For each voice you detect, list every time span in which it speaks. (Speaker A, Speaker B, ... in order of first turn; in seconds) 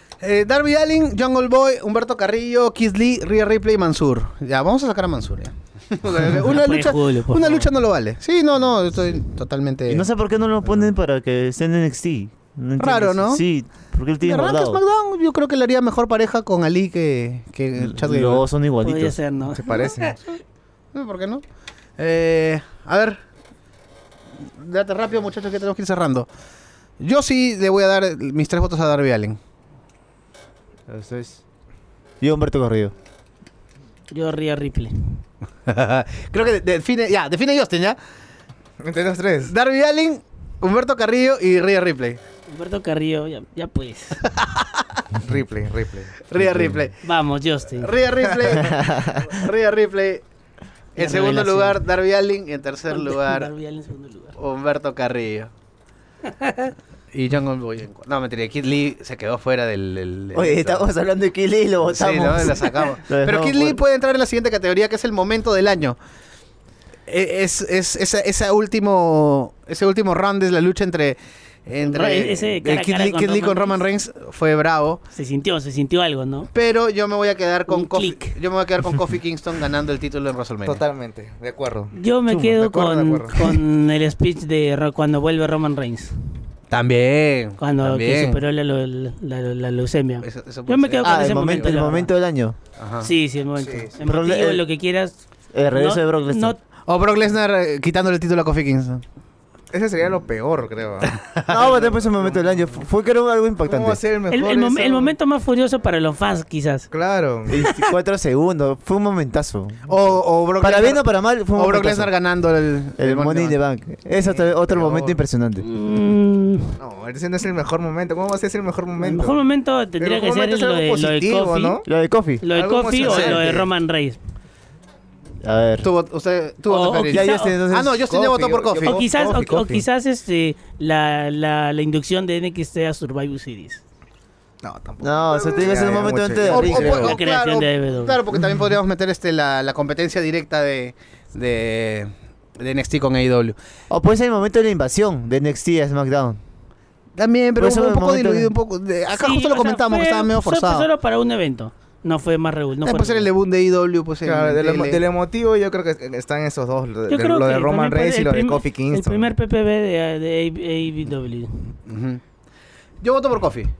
Speaker A: 0.2-10.1, 12.8-13.4, 14.2-18.4, 20.9-21.4, 22.0-23.2, 24.6-26.3, 27.0-29.4, 35.7-38.0, 39.5-42.2, 44.2-45.0, 46.2-47.0, 47.8-50.2, 51.0-53.5, 54.4-55.5, 57.1-60.8, 61.9-66.0, 67.1-75.0, 76.5-80.8, 86.7-88.4, 90.2-91.8, 92.8-93.1, 96.9-99.0, 101.2-101.5, 109.9-113.5, 123.0-123.5, 125.8-129.0, 136.4-143.5, 147.2-150.9, 152.8-155.0, 161.8-162.2, 163.0-163.7
Speaker B: 6.5-7.7, 18.8-20.2, 34.1-35.2, 42.5-44.2, 47.0-47.9, 51.0-51.8, 52.9-54.4, 56.4-56.7, 71.9-73.8, 75.1-76.5, 77.7-78.4, 81.9-86.1, 87.6-92.1, 93.0-95.2, 95.7-96.6, 104.3-106.9, 107.5-107.9, 115.6-116.8, 119.0-121.8, 122.4-124.2, 126.7-127.5, 128.8-133.8, 136.7-138.2, 149.2-153.3, 157.1-161.7
Speaker C: 9.9-14.8, 17.8-19.2, 30.9-31.4, 32.2-32.9, 46.4-46.8, 48.6-49.2, 60.3-63.8, 82.3-82.5, 91.0-92.6, 94.0-94.6, 95.5-96.5, 101.5-104.0, 107.5-109.8, 110.6-112.1, 113.0-115.7, 121.8-122.4, 125.4-125.9, 127.1-128.1, 135.0-137.2, 143.9-146.4, 147.6-148.5
Speaker D: 19.5-20.2, 38.8-39.5, 45.2-46.1, 80.6-81.9, 82.5-83.6, 93.6-93.9, 99.7-102.6, 103.6-105.1, 106.9-107.7, 114.1-115.2, 116.8-119.4, 120.0-121.8, 122.5-123.7, 128.0-129.8, 134.6-136.9, 154.2-159.3